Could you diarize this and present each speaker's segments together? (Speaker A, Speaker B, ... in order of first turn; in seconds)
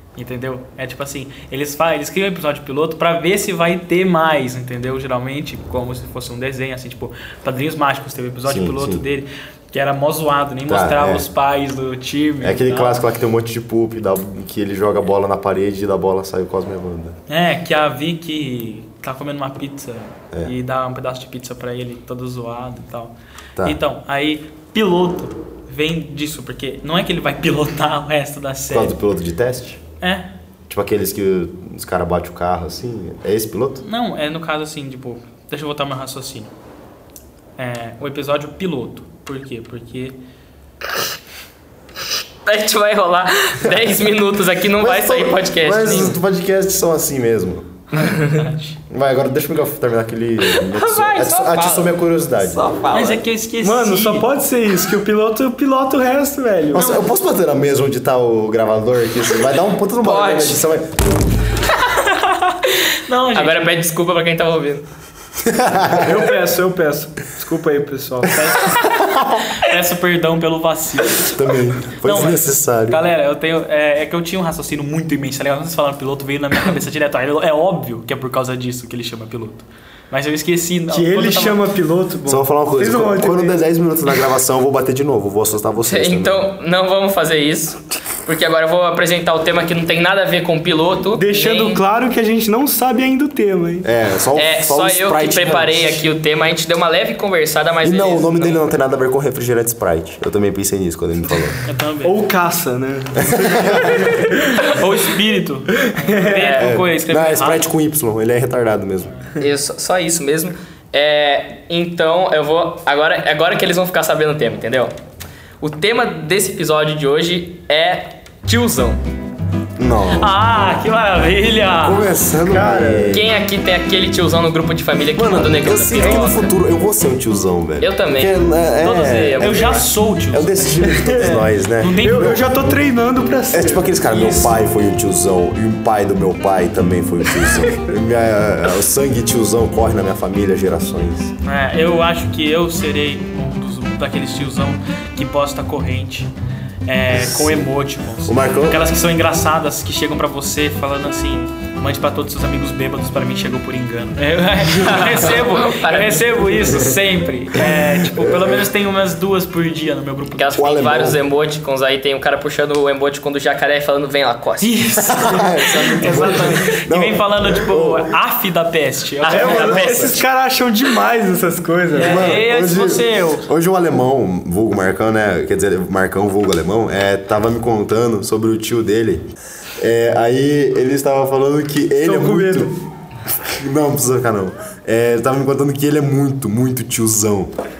Speaker A: 0.1-13.0, 17.3-28.9, 30.0-30.3, 33.8-36.5, 37.6-40.1, 48.0-48.8, 52.9-54.3, 56.8-57.0, 62.2-63.7, 69.6-71.3, 72.0-81.6, 101.6-102.2, 104.5-107.7, 120.2-122.1, 129.0-130.8, 131.8-132.4, 141.4-146.3, 146.8-160.5, 164.6-169.8, 171.9-173.5
Speaker B: 8.5-9.0, 10.7-11.2, 12.4-17.1, 28.7-29.8, 30.7-33.8, 44.8-47.7, 48.9-52.7, 56.7-61.2, 65.4-66.2, 71.3-73.0, 82.3-86.5, 93.8-96.0, 97.8-101.6, 103.2-104.1, 106.5-109.1, 119.8-120.3, 121.8-123.4, 125.2-132.4, 133.5-141.3, 147.1-147.7, 148.2-148.8, 156.6-156.9, 157.7-158.6, 160.5-161.2, 165.0-168.1, 169.4-170.1, 171.9-182.7, 183.4-187.5
Speaker C: 42.4-46.2, 48.0-48.4, 50.5-53.2, 60.0-60.6, 63.3-64.8, 85.9-91.8, 94.3-98.6, 106.2-106.8, 109.4-114.9, 115.6-119.0, 123.1-126.5, 127.8-129.9, 154.7-156.6, 160.4-165.0, 169.2-170.2
Speaker D: 53.6-56.9, 65.9-68.6, 80.9-83.6, 91.2-93.9, 102.0-104.6, 105.9-106.4, 122.5-123.1, 130.9-131.4, 132.0-134.6, 169.3-172.4, 182.0-182.8